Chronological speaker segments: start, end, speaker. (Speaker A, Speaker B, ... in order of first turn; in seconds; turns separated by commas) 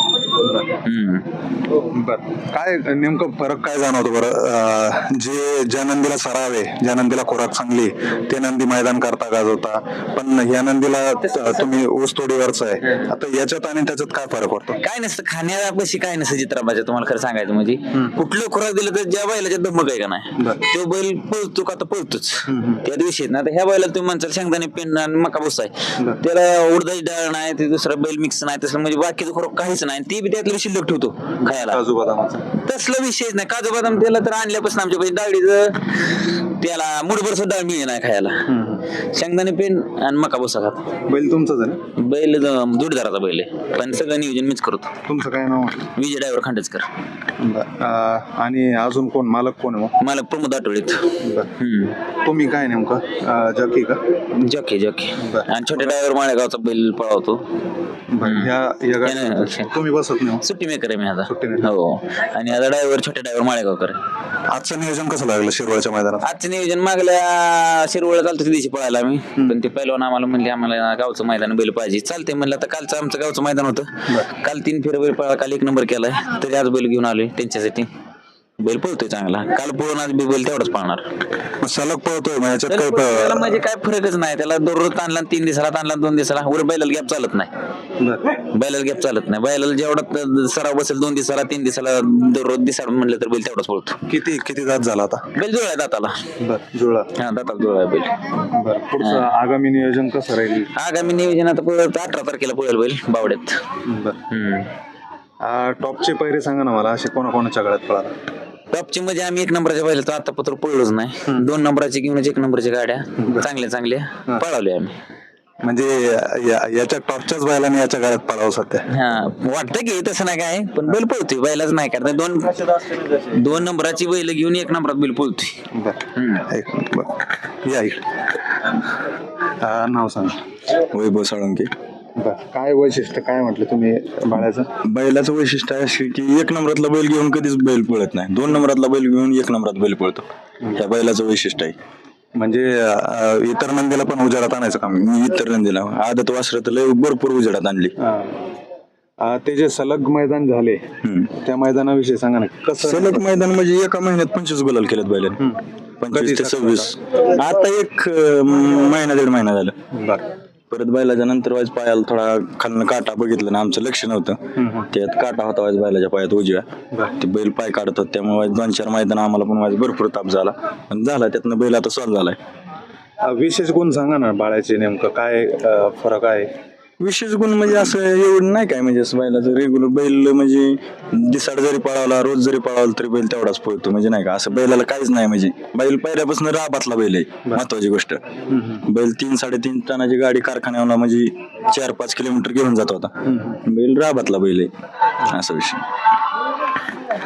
Speaker A: 0.4-0.7, Speaker B: 0.8-1.3, Speaker A: 1.8-14.8, Speaker B: 14.8-31.8, Speaker A: 17.9-18.2, Speaker A: 20.4-20.6, Speaker A: 22.5-22.8, Speaker A: 31.4-32.5, Speaker B: 32.6-40.9, Speaker A: 38.5-38.9, Speaker A: 41.1-41.8, Speaker B: 42.0-45.0, Speaker A: 45.1-45.9, Speaker B: 46.0-46.9, Speaker A: 47.4-49.9, Speaker B: 50.0-52.0, Speaker A: 51.2-51.5, Speaker A: 52.2-54.0, Speaker B: 54.4-57.4, Speaker A: 55.2-55.9, Speaker A: 58.1-60.5, Speaker B: 58.2-58.5, Speaker B: 59.0-59.7, Speaker B: 60.4-64.0, Speaker A: 61.3-61.7, Speaker A: 64.5-66.3, Speaker B: 66.2-77.9, Speaker B: 78.6-81.0, Speaker A: 81.6-83.6, Speaker B: 82.7-87.5, Speaker A: 88.0-88.4, Speaker B: 88.3-94.0, Speaker A: 94.1-95.3, Speaker B: 95.3-96.2, Speaker A: 96.4-97.1, Speaker B: 97.2-98.1, Speaker A: 98.5-100.7, Speaker B: 99.0-99.2, Speaker B: 100.8-103.6, Speaker A: 103.8-104.2, Speaker B: 104.3-104.7, Speaker A: 105.4-108.1, Speaker B: 108.7-115.0, Speaker A: 113.2-113.5, Speaker A: 115.6-118.9, Speaker B: 118.9-125.6, Speaker A: 125.7-128.0, Speaker B: 126.2-126.5, Speaker A: 129.6-130.4, Speaker C: 130.9-131.7, Speaker A: 132.2-134.7, Speaker C: 134.8-140.2, Speaker C: 140.8-141.8, Speaker A: 142.3-145.1, Speaker C: 145.0-147.9, Speaker A: 148.0-148.4, Speaker A: 149.2-153.3, Speaker C: 151.0-151.3, Speaker C: 152.8-155.4, Speaker A: 155.4-157.0, Speaker C: 156.0-159.8, Speaker A: 159.9-160.2, Speaker C: 160.7-164.4, Speaker A: 164.6-164.9, Speaker C: 164.9-166.7, Speaker C: 167.2-172.4, Speaker A: 173.2-176.5, Speaker C: 177.0-188.2, Speaker A: 188.5-188.8, Speaker C: 188.9-193.1, Speaker A: 193.2-193.6, Speaker C: 193.6-194.7, Speaker C: 195.2-195.8